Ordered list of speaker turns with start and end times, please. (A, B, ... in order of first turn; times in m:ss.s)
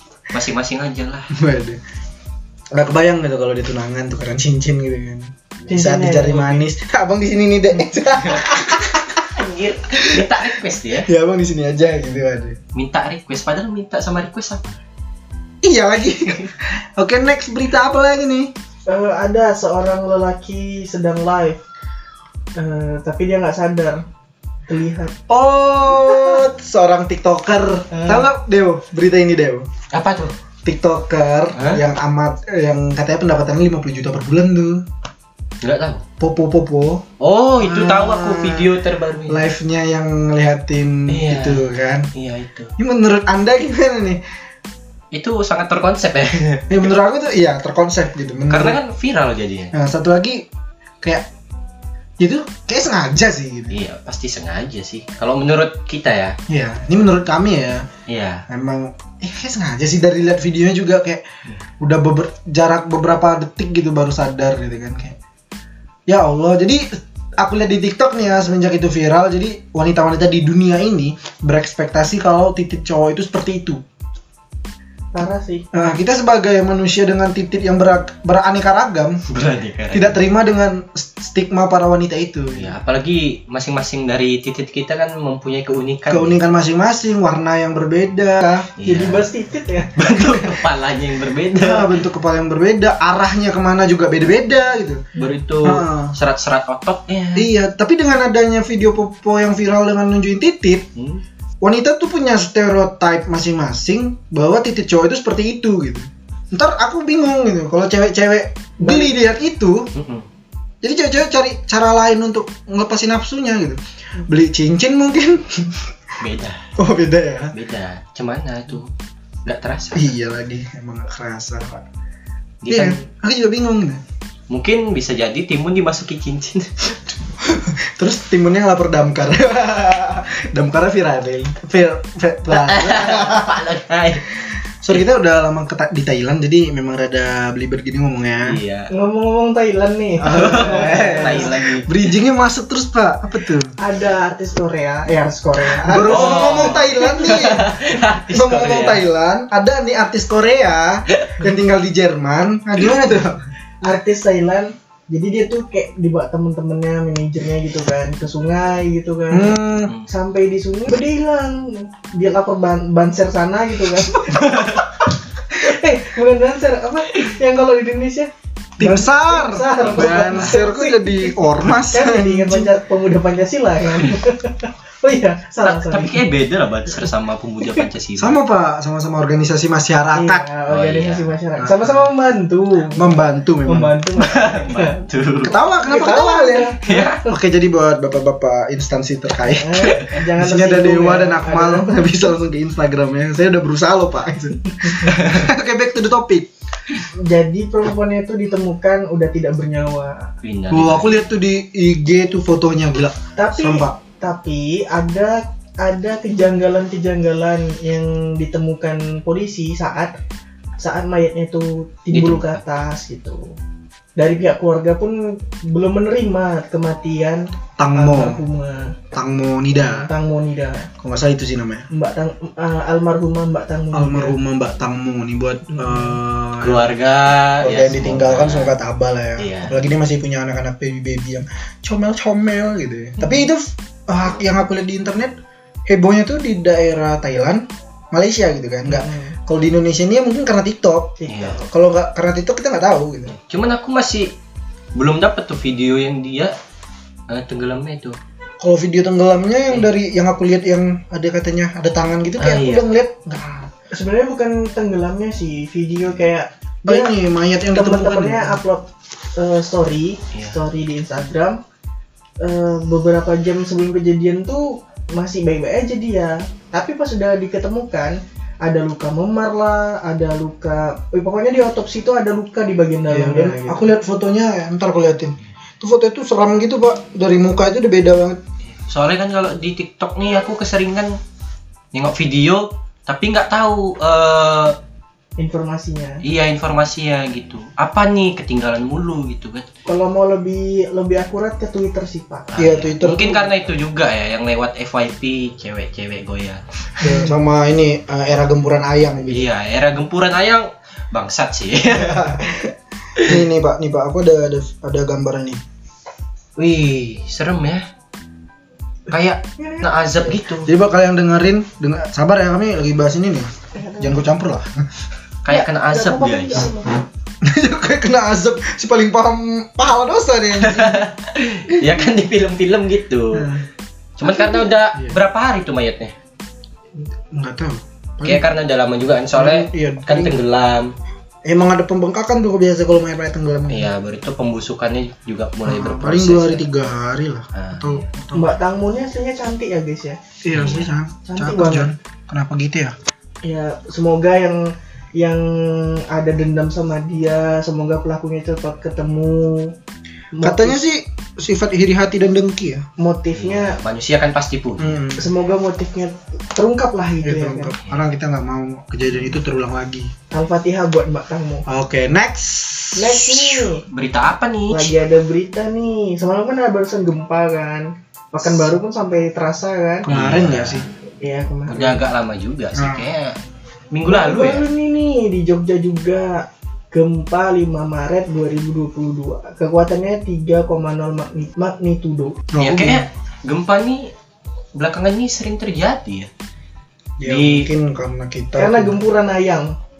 0:00.3-0:01.3 A
0:01.3-0:01.8 B
0:02.7-0:09.2 B
0:05.7-0:06.6 C
0:08.1-0:08.5 A
0:09.2-0:11.1 A
0:10.0-0:10.3 B
0:11.0-0:12.6 B
0:12.8-0:14.8 A
0:15.6-0:18.5 B
0:18.9-0:21.6 C
0:22.6-0:24.0 C
0:24.7-0:25.1 C
0:25.3-0:29.6 B
0:27.9-0:28.3 C
0:29.9-0:30.3 A
0:30.6-0:34.8 B
0:31.6-0:31.8 A
0:35.6-0:36.0 A
0:36.2-0:37.0 B
0:37.2-0:39.5 A
0:37.6-0:38.7 B
0:39.3-0:42.1 B
0:41.1-0:42.7 A
0:42.8-0:44.2 B
0:45.1-0:46.8 A
0:46.7-0:48.8 B
0:48.5-0:49.7 A
0:49.7-0:50.4 B
0:52.2-0:53.8 B
0:53.7-0:56.4 A
0:56.5-0:57.8 B
0:58.1-0:58.4 A
0:58.5-1:01.2 B
1:01.8-1:05.2 B
1:06.1-1:06.9 B
1:07.4-1:13.8 B
1:15.1-1:15.6 C
1:15.7-1:19.2 B
1:19.3-1:20.2 A
1:19.9-1:22.7 B
1:22.6-1:26.4 A
1:26.1-1:28.7 B
1:28.8-1:29.2 A
1:28.8-1:29.9 C
1:30.0-1:32.0 A
1:30.3-1:30.6 B
1:31.6-1:35.0 B
1:35.2-1:37.5 A
1:35.6-1:36.1 B
1:37.4-1:40.9 B
1:41.6-1:49.9 B
1:48.8-1:49.1 C
1:49.9-1:50.2 A
1:50.8-1:55.9 B
1:56.2-1:56.6 A
1:56.8-1:57.5 B
1:57.5-1:58.9 A
1:59.4-2:00.1 A
1:59.9-2:01.8 B
2:02.6-2:03.0 A
2:02.7-2:04.0 B
2:04.5-2:07.0 A
2:07.4-2:13.6 B
2:12.5-2:14.3 A
2:14.8-2:18.6 B
2:18.4-2:18.9 A
2:18.9-2:21.5 C
2:20.2-2:23.7 B
2:20.3-2:21.9 A
2:23.8-2:26.8 C
2:25.9-2:27.7 B
2:26.0-2:29.0 A
2:28.3-2:33.4 B
2:33.8-2:39.6 C
2:39.3-2:39.9 B
2:40.1-2:56.2 C
2:44.2-2:44.9 A
2:48.8-2:52.7 B
2:49.8-2:50.6 A
2:55.6-2:58.4 A
2:58.2-3:00.5 B
3:00.1-3:05.0 C
3:00.7-3:01.3 A
3:01.6-3:02.1 B
3:02.9-3:04.0 B
3:04.2-3:05.6 A
3:05.4-3:16.5 B
3:05.8-3:07.2 C
3:06.8-3:07.2 A
3:09.5-3:12.3 C
3:09.8-3:10.2 A
3:15.1-3:15.4 A
3:17.2-3:20.3 C
3:20.4-3:21.2 A
3:20.7-3:24.0 B
3:23.4-3:30.1 C
3:30.8-3:33.5 C
3:32.1-3:32.6 A
3:34.2-3:38.9 C
3:37.8-3:38.4 B
3:39.1-3:40.1 B
3:39.8-3:40.9 C
3:41.0-3:41.9 B
3:41.9-3:44.4 C
3:43.9-3:46.9 B
3:45.8-3:46.2 C
3:46.6-3:48.8 A
3:47.6-3:55.4 B
3:49.4-3:49.8 A
3:55.9-4:03.4 B
3:58.9-3:59.4 C
4:01.2-4:01.6 C
4:01.3-4:01.6 A
4:03.3-4:04.4 A
4:05.0-4:06.5 A
4:07.3-4:08.2 A
4:08.6-4:13.7 B
4:12.4-4:12.9 A
4:13.9-4:17.1 C
4:16.9-4:18.6 B
4:17.7-4:21.6 C
4:22.4-4:33.9 C
4:33.1-4:38.4 B
4:38.9-4:41.2 A
4:41.9-4:44.8 A
4:45.4-4:46.2 C
4:46.2-4:49.7 A
4:49.9-4:52.6 C
4:52.5-4:57.2 A
4:52.6-4:53.5 B
4:57.0-4:59.5 B
4:59.2-5:02.3 A
5:01.9-5:05.6 B
5:06.6-5:07.9 A
5:09.1-5:10.7 A
5:09.6-5:09.9 C
5:10.6-5:14.8 B
5:13.7-5:14.2 C
5:15.4-5:16.7 A
5:15.5-5:17.0 C
5:17.4-5:21.1 B
5:20.6-5:23.5 A
5:21.7-5:22.1 B
5:23.3-5:23.6 B
5:24.2-5:26.1 A
5:24.4-5:25.2 B
5:27.0-5:28.5 B
5:28.2-5:30.9 A
5:29.3-5:30.4 B
5:31.4-5:33.9 B
5:33.7-5:36.6 A
5:35.6-5:38.5 B
5:37.5-5:38.0 A
5:38.3-5:40.2 C
5:40.4-5:43.0 B
5:40.5-5:40.9 A
5:41.2-5:41.9 C
5:43.4-5:49.8 C
5:50.3-5:50.8 C
5:50.4-5:52.8 B
5:53.0-5:53.8 C
5:53.4-5:55.0 A
5:54.8-5:55.3 B
5:55.2-5:57.8 C
5:57.2-6:00.1 B
6:00.3-6:01.6 C
6:01.7-6:03.7 B
6:03.0-6:03.8 C
6:03.9-6:04.9 A
6:04.7-6:10.1 C
6:10.0-6:10.9 B
6:10.0-6:10.9 A
6:11.2-6:12.0 C
6:11.7-6:13.4 A
6:12.8-6:13.1 B
6:13.9-6:14.6 A
6:14.0-6:22.4 C
6:22.5-6:23.1 B
6:22.6-6:24.1 A
6:24.8-6:26.3 A
6:27.2-6:29.0 B
6:27.2-6:27.7 A
6:28.6-6:29.7 C